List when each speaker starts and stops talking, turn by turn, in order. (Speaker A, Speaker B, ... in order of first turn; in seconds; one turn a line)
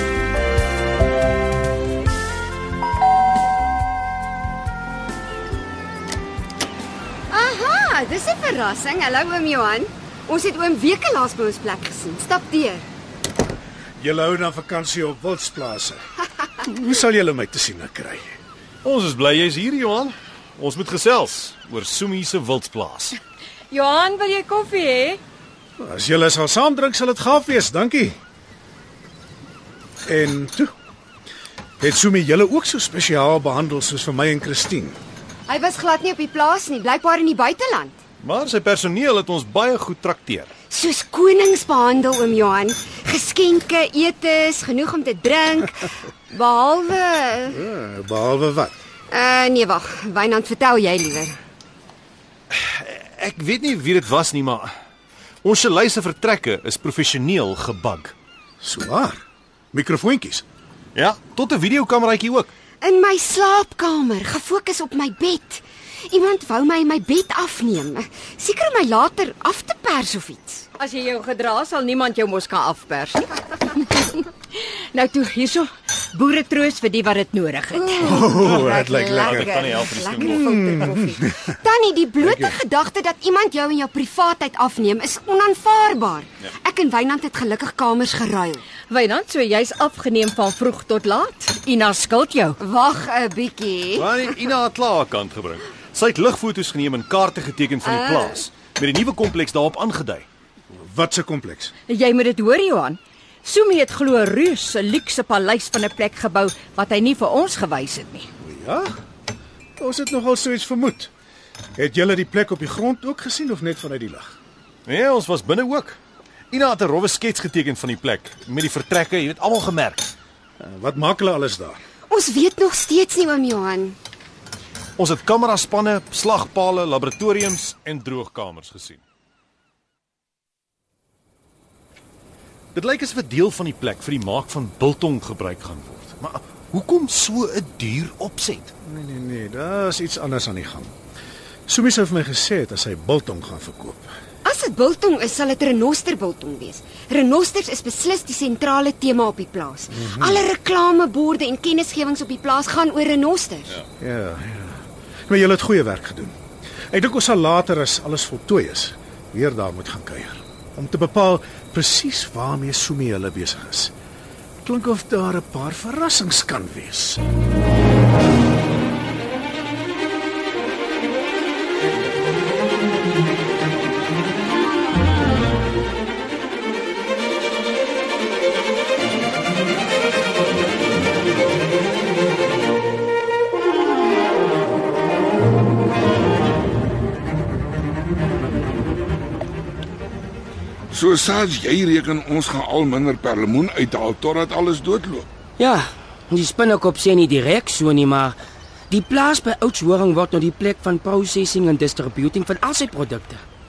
Speaker A: 7.3-12.8
Speaker B: 14.0-16.0
Speaker B: 16.6-18.3
Speaker C: 18.8-23.1
Speaker D: 23.7-25.2
Speaker B: 25.8-28.2
Speaker B: 30.1-30.7
Speaker B: 31.8-35.0
Speaker A: 35.5-38.0
Speaker C: 38.2-40.5
Speaker A: 40.7-47.6
Speaker B: 47.5-48.7
Speaker A: 49.1-51.4
Speaker C: 52.5-54.7
Speaker C: 55.4-58.1
Speaker B: 58.6-59.2
Speaker B: 59.7-60.4
Speaker C: 60.9-62.5
Speaker A: 62.8-70.7
Speaker D: 70.8-78.3
Speaker A: 77.8-88.6
Speaker B: 78.0-79.6
Speaker C: 78.3-81.0
Speaker B: 80.2-81.5
Speaker B: 82.2-82.5
Speaker D: 88.9-92.6
Speaker A: 92.6-94.1
Speaker C: 93.9-100.2
Speaker A: 97.8-98.4
Speaker B: 100.8-101.7
Speaker D: 101.9-108.3
Speaker B: 108.4-108.9
Speaker B: 109.8-111.1
Speaker B: 111.8-114.3
Speaker C: 114.9-116.0
Speaker C: 116.5-120.1
Speaker B: 120.6-121.8
Speaker A: 122.1-124.0
Speaker C: 125.0-129.0
Speaker C: 132.7-138.7
Speaker B: 138.8-140.9
Speaker B: 141.7-144.1
Speaker A: 144.4-153.7
Speaker B: 149.9-150.4
Speaker B: 154.0-156.3
Speaker B: 156.9-163.9
Speaker B: 164.6-167.2
Speaker E: 190.9-195.3
Speaker F: 195.6-198.4
Speaker F: 198.9-203.4